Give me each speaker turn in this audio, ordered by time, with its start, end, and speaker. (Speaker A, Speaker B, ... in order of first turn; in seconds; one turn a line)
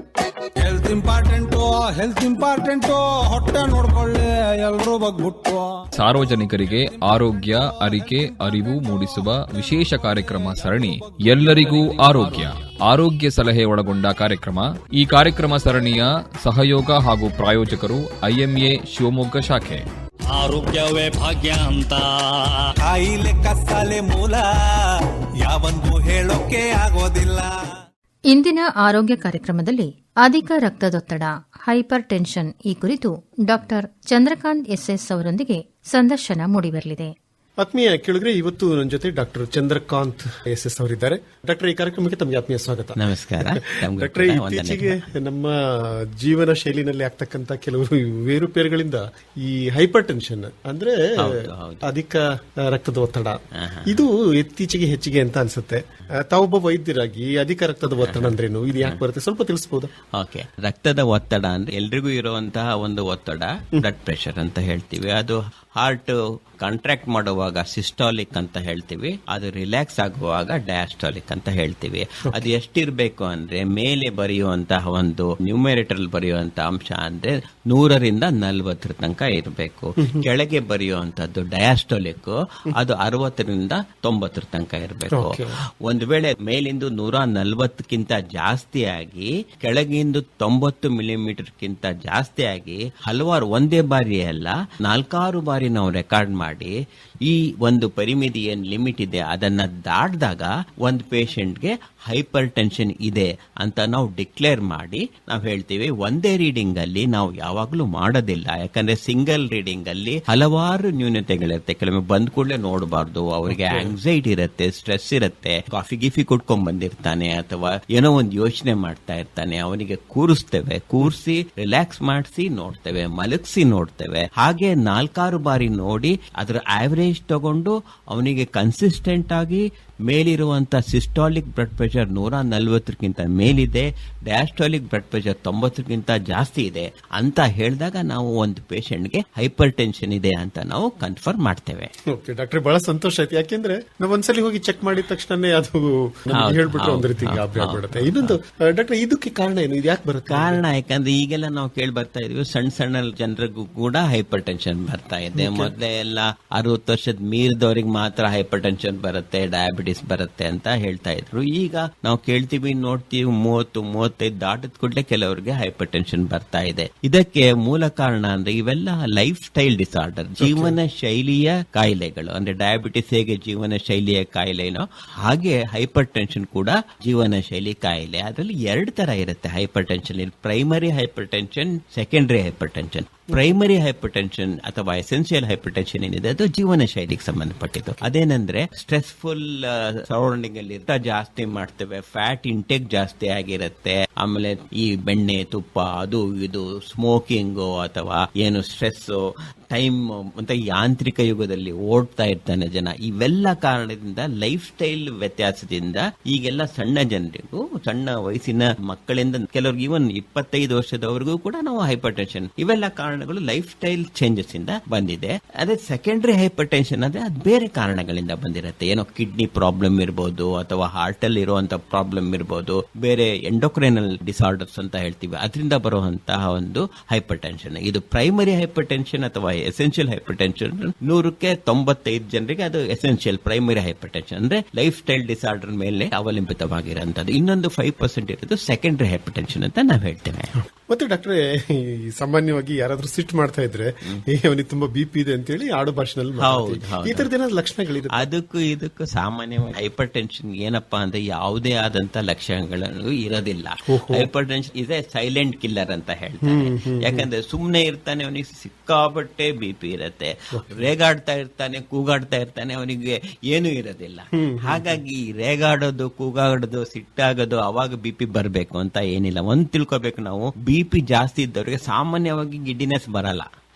Speaker A: 0.6-5.8
Speaker B: 6.0-19.8
Speaker A: 6.7-12.5
Speaker C: 20.3-22.6
Speaker A: 22.8-24.9
Speaker A: 25.4-27.5
Speaker D: 28.3-37.1
Speaker E: 37.6-59.9
Speaker F: 43.0-45.0
Speaker F: 51.2-51.8
Speaker F: 53.6-54.0
Speaker F: 58.0-59.0
Speaker F: 60.2-96.7
Speaker E: 85.1-85.5
Speaker F: 97.2-141.9
Speaker E: 113.5-113.9
Speaker E: 142.1-150.6
Speaker F: 146.3-148.3
Speaker F: 150.3-199.2
Speaker E: 155.3-155.7
Speaker E: 170.4-170.8
Speaker F: 199.7-240.5
Speaker E: 240.9-248.2
Speaker F: 246.4-247.3
Speaker F: 248.2-273.5
Speaker E: 253.9-254.3
Speaker E: 256.4-257.2
Speaker E: 260.5-260.8
Speaker E: 264.3-265.0